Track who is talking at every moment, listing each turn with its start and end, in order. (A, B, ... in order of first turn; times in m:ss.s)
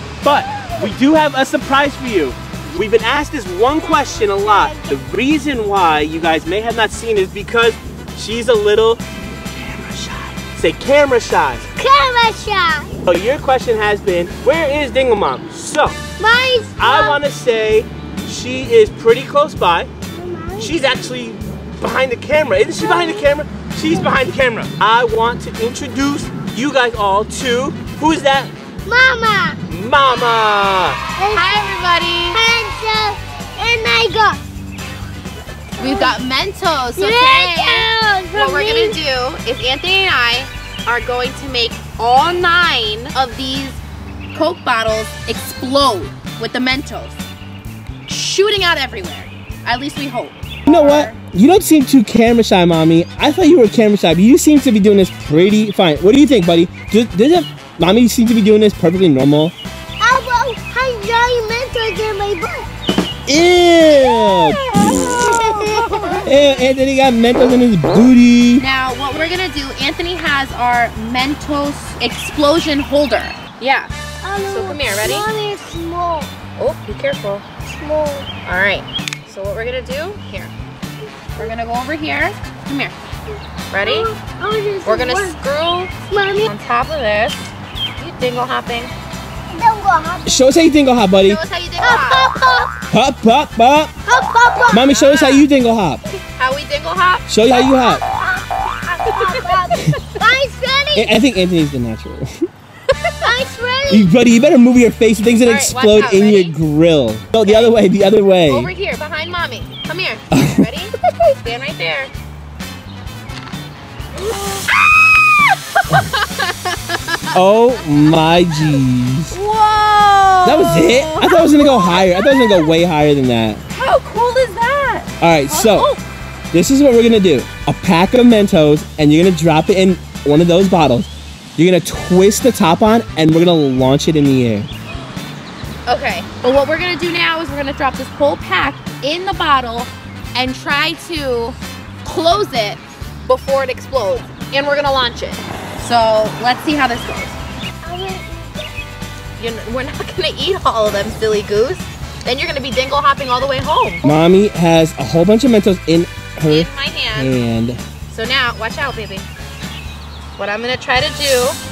0:00.2-0:09.0 A
0:00.6-0:00.9 B
0:03.8-0:05.0 B
0:09.5-0:11.6 A
0:11.8-0:12.9 B
0:13.0-0:16.0 A
0:16.2-0:17.2 B
0:16.8-0:19.9 A
0:20.1-0:20.9 B
0:20.6-0:28.5 A
0:22.8-0:23.4 B
0:28.9-0:29.6 B
0:29.7-0:31.0 A
0:31.2-0:31.8 B
0:31.3-0:32.4 C
0:32.3-0:34.4 B
0:35.8-0:36.1 B
0:35.8-0:43.8 C
0:37.0-0:39.0 B
0:44.3-0:47.2 C
0:48.1-0:51.2 C
0:50.7-0:59.5 A
1:00.0-1:02.7 B
1:03.3-1:04.6 A
1:03.9-1:06.2 B
1:05.4-1:06.2 C
1:06.2-1:08.6 A
1:08.6-1:13.9 C
1:14.2-1:16.3 B
1:14.5-1:15.3 C
1:16.6-1:17.5 C
1:17.7-1:18.3 B
1:18.4-1:20.5 C
1:21.4-1:23.0 C
1:23.7-1:24.1 C
1:23.8-1:25.4 B
1:24.8-1:28.9 C
1:26.1-1:26.5 B
1:29.5-1:30.3 B
1:30.3-1:31.4 A
1:31.2-1:32.3 C
1:31.8-1:32.8 B
1:32.9-1:33.9 A
1:34.1-1:34.8 B
1:34.7-1:35.5 C
1:34.7-1:36.0 A
1:36.4-1:37.3 C
1:37.3-1:38.0 A
1:37.5-1:41.2 B
1:39.1-1:40.2 C
1:40.9-1:42.3 A
1:43.0-1:43.3 C
1:43.2-1:44.1 B
1:43.9-1:48.7 A
1:45.4-1:46.5 C
1:47.4-1:47.8 C
1:48.5-1:52.1 C
1:50.3-1:50.7 A
1:54.2-1:54.7 C
1:55.9-1:57.3 C
1:57.3-1:59.4 A
1:59.3-2:02.7 C
2:00.4-2:03.6 A
2:03.8-2:06.0 C
2:05.2-2:05.9 A
2:06.5-2:14.7 A
2:15.9-2:27.4 C
2:27.8-2:28.8 B
2:29.4-2:34.0 C
2:34.0-2:37.8 A
2:36.5-2:37.3 C
2:38.1-2:39.3 C
2:40.4-2:41.6 C